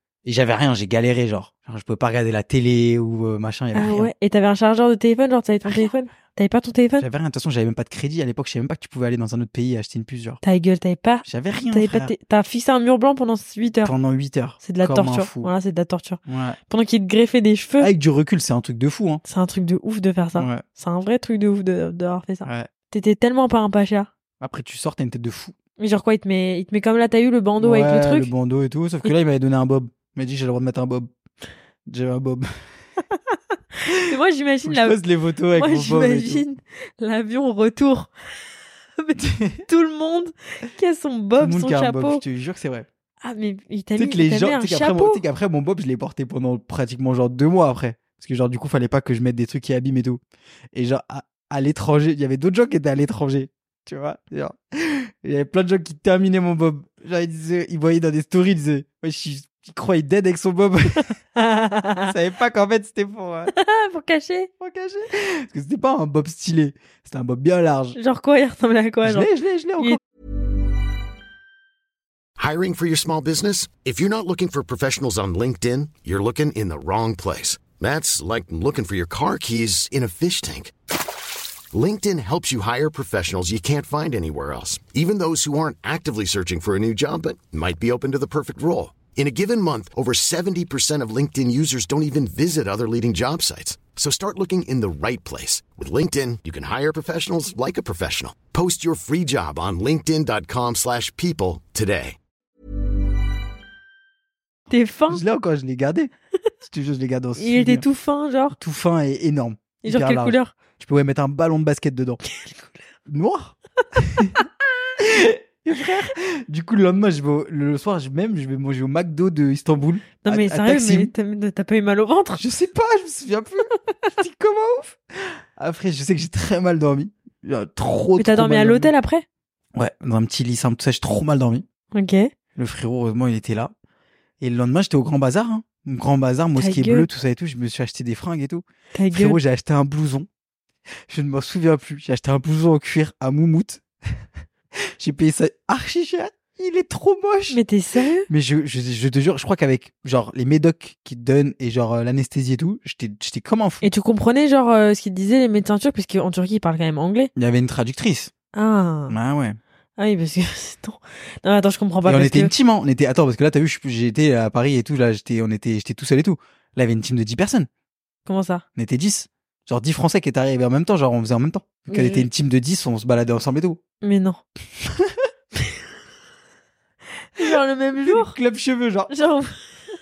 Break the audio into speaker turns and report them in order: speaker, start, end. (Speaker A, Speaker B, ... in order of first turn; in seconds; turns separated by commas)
Speaker A: 0.2-4.1, Speaker B: 3.7-7.0, Speaker A: 7.0-10.4, Speaker B: 10.4-13.9, Speaker A: 11.2-12.1, Speaker A: 13.8-15.5, Speaker B: 14.6-17.9, Speaker A: 16.2-16.6, Speaker A: 17.8-19.2, Speaker B: 19.2-24.1, Speaker A: 20.4-20.6, Speaker A: 24.4-25.5, Speaker B: 25.8-28.3, Speaker A: 27.6-31.1, Speaker A: 31.9-32.6, Speaker B: 33.9-35.0, Speaker A: 34.6-36.5, Speaker B: 35.5-38.1, Speaker B: 39.0-42.2, Speaker A: 39.2-39.6, Speaker A: 41.4-42.9, Speaker B: 43.2-45.2, Speaker A: 44.0-50.2, Speaker A: 50.7-61.1, Speaker B: 61.3-62.1, Speaker A: 62.1-63.5, Speaker B: 63.5-64.5, Speaker A: 64.6-68.0, Speaker B: 67.9-69.3, Speaker A: 69.0-70.0, Speaker C: 72.4-80.7, Speaker C: 81.7-102.2, Speaker B: 104.7-105.2, Speaker A: 105.1-106.1, Speaker A: 106.6-107.8, Speaker B: 107.4-108.6, Speaker A: 108.5-112.2, Speaker B: 109.8-110.5, Speaker B: 112.3-112.7, Speaker A: 113.1-114.4, Speaker A: 115.0-121.1, Speaker B: 120.2-122.4, Speaker A: 122.4-128.9, Speaker B: 128.2-129.2, Speaker A: 129.7-131.6, Speaker B: 131.9-132.3, Speaker A: 132.6-133.7, Speaker A: 134.4-140.3, Speaker B: 136.6-137.1, Speaker B: 138.9-139.4, Speaker A: 141.1-144.1, Speaker A: 144.8-147.6, Speaker B: 147.5-148.3, Speaker A: 148.3-153.9, Speaker B: 153.8-157.3, Speaker A: 157.3-158.3, Speaker B: 158.5-159.1, Speaker A: 159.1-159.6, Speaker B: 160.0-162.5, Speaker A: 162.0-167.7, Speaker B: 168.2-168.6, Speaker A: 168.8-173.8, Speaker B: 171.9-172.3, Speaker B: 174.0-174.4, Speaker A: 174.8-175.2, Speaker B: 177.3-178.3, Speaker A: 177.4-179.1, Speaker B: 179.1-179.7